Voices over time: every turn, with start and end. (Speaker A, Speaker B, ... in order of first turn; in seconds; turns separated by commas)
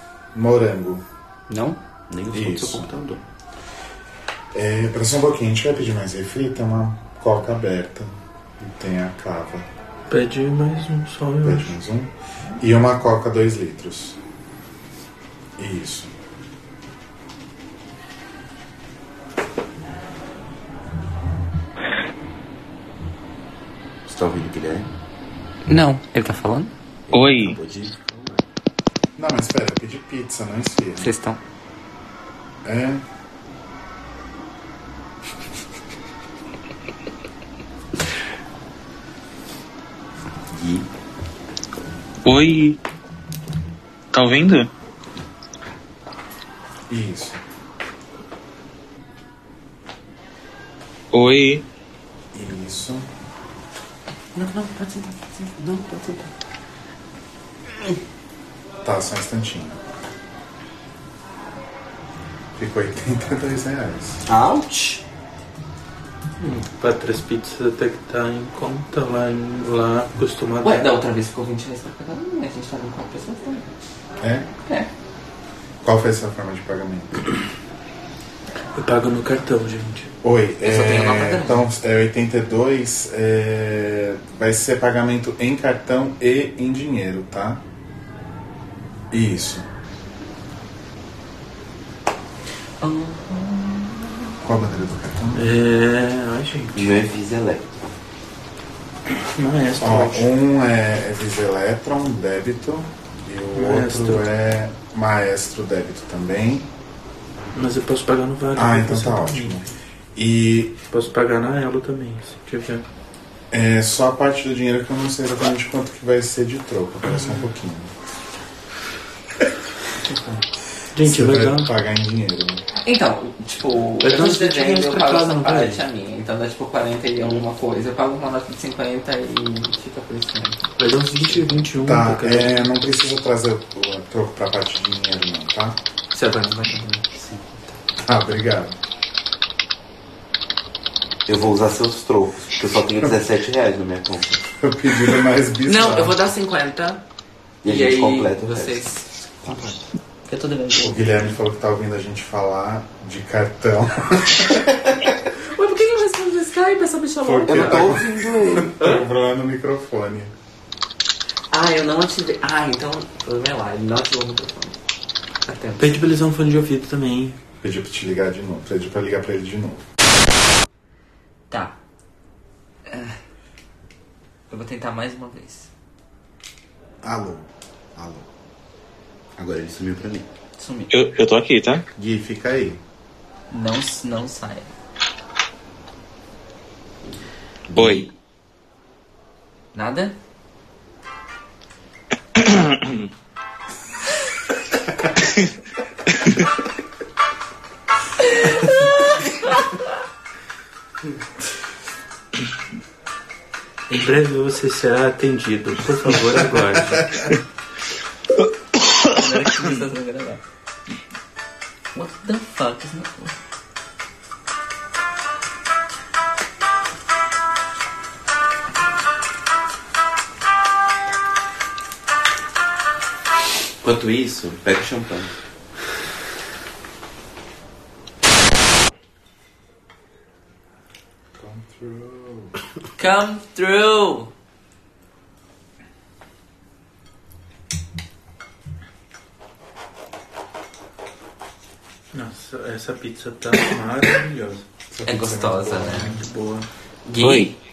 Speaker A: 0.3-1.0, Speaker B: 1.5-1.8, Speaker C: 2.1-3.2, Speaker A: 2.3-2.9, Speaker A: 4.5-9.7, Speaker D: 10.1-11.7, Speaker A: 11.4-14.2, Speaker A: 15.6-16.1, Speaker C: 24.1-24.9, Speaker B: 25.7-26.7, Speaker C: 27.1-28.4, Speaker E: 27.1-27.6, Speaker A: 29.2-31.1, Speaker B: 31.0-31.4, Speaker A: 32.6-33.0, Speaker C: 40.5-40.9, Speaker E: 42.2-42.8, Speaker E: 44.1-44.7, Speaker A: 46.9-47.4, Speaker E: 51.1-51.6, Speaker A: 52.3-53.0, Speaker B: 54.3-56.3, Speaker A: 58.8-59.8, Speaker A: 62.5-64.2, Speaker C: 64.3-65.0, Speaker D: 66.4-70.9, Speaker B: 70.6-73.7, Speaker A: 74.2-74.5, Speaker A: 75.8-77.1, Speaker D: 78.7-80.1, Speaker A: 80.2-87.6, Speaker B: 80.6-81.6, Speaker A: 89.1-89.7, Speaker B: 92.8-94.3, Speaker A: 94.4-95.6, Speaker D: 95.3-96.9, Speaker C: 96.7-97.7, Speaker D: 99.2-100.3, Speaker A: 99.8-106.7, Speaker D: 103.5-104.2, Speaker D: 107.5-109.6, Speaker A: 108.5-110.8, Speaker D: 110.9-112.8, Speaker A: 113.5-117.9, Speaker D: 117.1-117.4, Speaker D: 120.9-121.7, Speaker A: 121.0-122.6, Speaker B: 122.8-130.6, Speaker D: 124.0-125.8, Speaker D: 130.8-132.5, Speaker A: 131.8-135.8, Speaker B: 136.1-137.1, Speaker A: 138.0-138.8, Speaker C: 141.3-144.4, Speaker A: 144.6-146.2, Speaker B: 145.6-147.0, Speaker C: 147.6-148.8, Speaker B: 147.6-149.1, Speaker C: 149.4-149.7, Speaker B: 150.3-151.3, Speaker A: 150.8-155.1, Speaker B: 155.5-157.9, Speaker A: 157.2-160.3, Speaker C: 157.4-159.0, Speaker B: 161.5-164.8, Speaker B: 165.4-165.9, Speaker D: 165.8-167.3, Speaker A: 167.6-169.8, Speaker B: 171.5-171.8, Speaker B: 172.9-173.2, Speaker B: 174.5-175.7, Speaker A: 177.0-178.2, Speaker C: 179.4-180.3, Speaker B: 180.6-180.9, Speaker E: 180.9-181.8, Speaker A: 182.0-182.8, Speaker B: 183.5-184.7, Speaker C: 187.7-188.1, Speaker E: 187.7-188.1, Speaker B: 189.7-190.2, Speaker E: 192.3-193.1, Speaker E: 195.2-195.4, Speaker B: 198.2-199.8, Speaker D: 203.9-207.3, Speaker B: 209.0-210.4, Speaker B: 211.9-213.3, Speaker C: 223.8-225.3, Speaker A: 231.3-232.5, Speaker B: 233.0-234.3, Speaker D: 242.1-244.6, Speaker A: 244.9-246.2, Speaker B: 245.1-246.1, Speaker D: 246.0-246.7, Speaker B: 247.1-247.5, Speaker E: 247.2-247.5